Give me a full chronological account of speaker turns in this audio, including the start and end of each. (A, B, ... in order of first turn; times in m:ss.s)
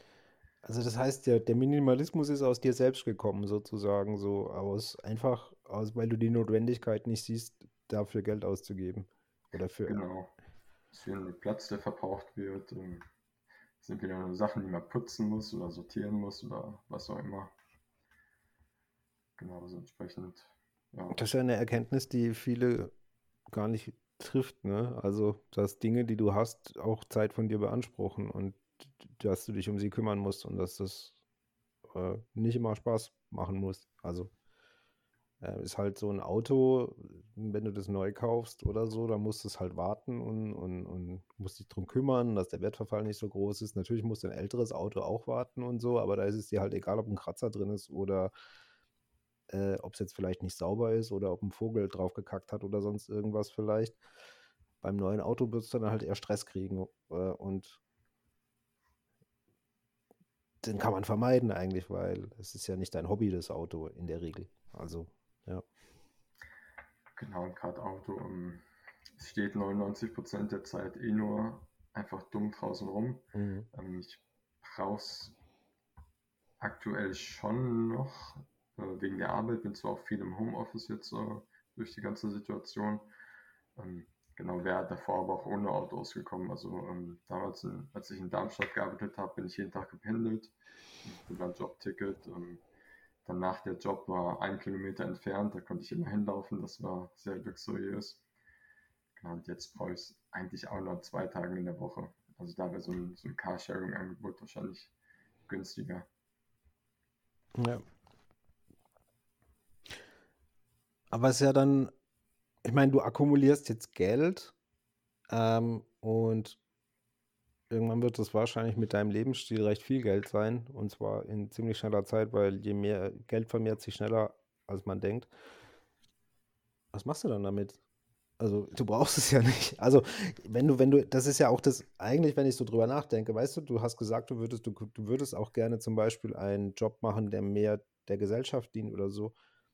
0:00.6-0:10.0 A
0:09.8-0:10.3 B
0:10.9-0:13.0 B
0:13.8-0:17.5 B
0:19.4-0:21.2 B
0:21.1-0:22.9 A
0:23.5-0:31.2 A
0:31.9-0:34.3 A
0:35.4-0:48.3 A
0:49.5-0:54.0 A
0:54.8-0:57.8 A
1:00.6-1:05.6 A
1:07.2-1:08.6 B
1:09.2-1:15.4 B
1:13.3-1:13.7 A
1:16.6-1:23.1 B
1:23.8-1:32.6 B
1:33.2-1:38.2 B
1:39.2-1:44.9 B
1:45.5-1:46.1 B
1:47.5-1:47.8 A
1:51.1-1:51.9 A
1:52.6-1:54.5 A
1:55.3-1:56.6 A
1:57.7-2:05.3 A
2:06.9-2:07.8 A
2:08.4-2:19.3 A